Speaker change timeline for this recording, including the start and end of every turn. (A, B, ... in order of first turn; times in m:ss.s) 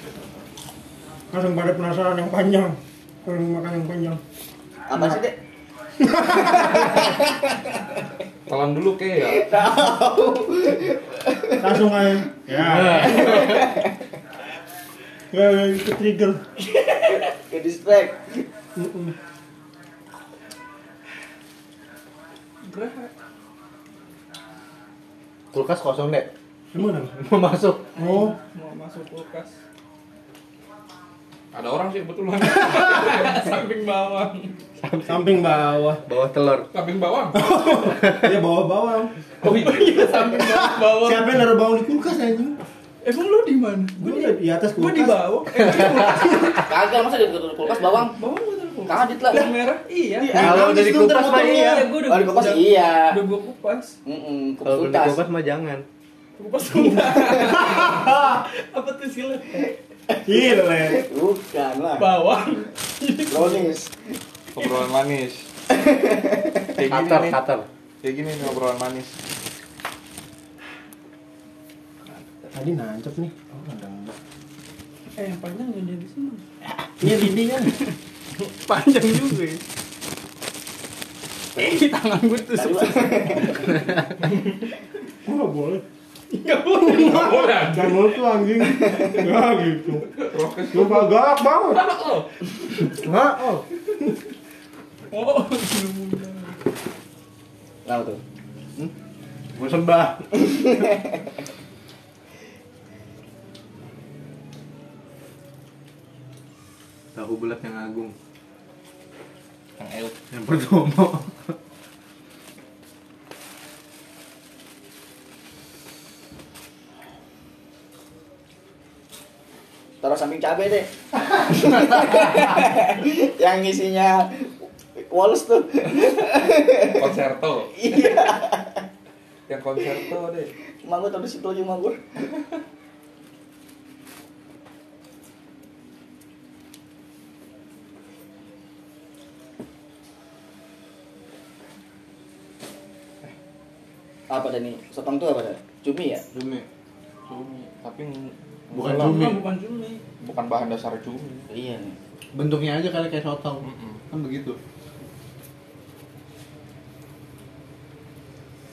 0:01.3-0:04.2 A
0:04.9-0:05.4 B
0:04.9-0:05.2 A
0:06.0-0:07.1 A
0:06.3-0:07.8 B
0:08.5-0:09.5 C
0:09.2-0:11.8 B
0:11.6-0:13.4 A
0:12.6-0:13.6 D
0:13.0-0:14.1 B
0:15.3-0:16.4 A
0:16.7-0:18.4 B
0:18.8-0:19.1 A
0:22.6-0:23.1 E
0:25.5-0:26.3 D
0:26.7-0:27.2 A
0:27.2-0:27.9 D
0:28.0-0:28.4 A
0:28.0-0:29.6 E
0:31.5-0:33.5 C
0:32.6-0:34.5 E
0:34.8-0:35.5 D
0:35.1-0:36.0 A
0:36.0-0:36.7 D
0:36.7-0:37.6 C
0:37.3-0:39.1 A
0:37.9-0:38.4 D
0:39.4-0:40.5 C
0:39.4-0:41.3 E
0:40.6-0:42.6 A
0:43.0-0:46.7 E
0:44.0-0:45.3 A
0:46.6-0:48.2 B
0:48.0-0:50.3 E
0:48.9-0:49.6 B
0:50.2-0:50.7 B
0:50.3-0:51.8 A
0:50.4-0:51.9 D
0:51.4-0:54.0 E
0:52.0-0:53.2 B
0:54.0-0:55.2 B
0:54.6-0:55.8 D
0:56.4-0:59.7 E
0:57.6-0:58.4 A
1:00.1-1:02.1 B
1:00.3-1:01.0 A
1:02.0-1:03.7 E
1:03.3-1:03.9 B
1:04.6-1:05.5 C
1:05.7-1:06.7 B
1:06.8-1:07.4 C
1:06.8-1:07.7 D
1:08.0-1:09.1 C
1:12.5-1:14.1 A
1:15.2-1:16.4 E
1:17.0-1:17.8 A
1:17.7-1:19.6 E
1:21.6-1:23.9 E
1:22.6-1:23.9 B
1:25.2-1:25.8 A
1:26.3-1:27.5 E
1:26.8-1:31.8 A
1:27.0-1:28.1 C
1:28.7-1:29.3 B
1:30.2-1:31.2 C
1:31.9-1:32.2 E
1:32.8-1:33.6 A
1:33.1-1:33.4 D
1:35.1-1:36.7 E
1:37.8-1:38.2 B
1:39.5-1:40.6 D
1:40.4-1:41.3 B
1:47.2-1:48.2 D
1:49.8-1:50.2 C
1:50.3-1:51.6 D
2:00.0-2:07.1 B
2:06.9-2:07.8 C
2:07.7-2:08.8 B
2:09.5-2:10.5 C
2:10.8-2:12.0 B
2:24.3-2:26.3 B
2:26.3-2:26.6 D
2:27.3-2:29.4 C
2:28.7-2:29.4 D
2:28.9-2:30.0 E
2:30.2-2:31.5 C
2:31.5-2:32.0 B
2:32.3-2:34.6 D
2:33.6-2:34.0 C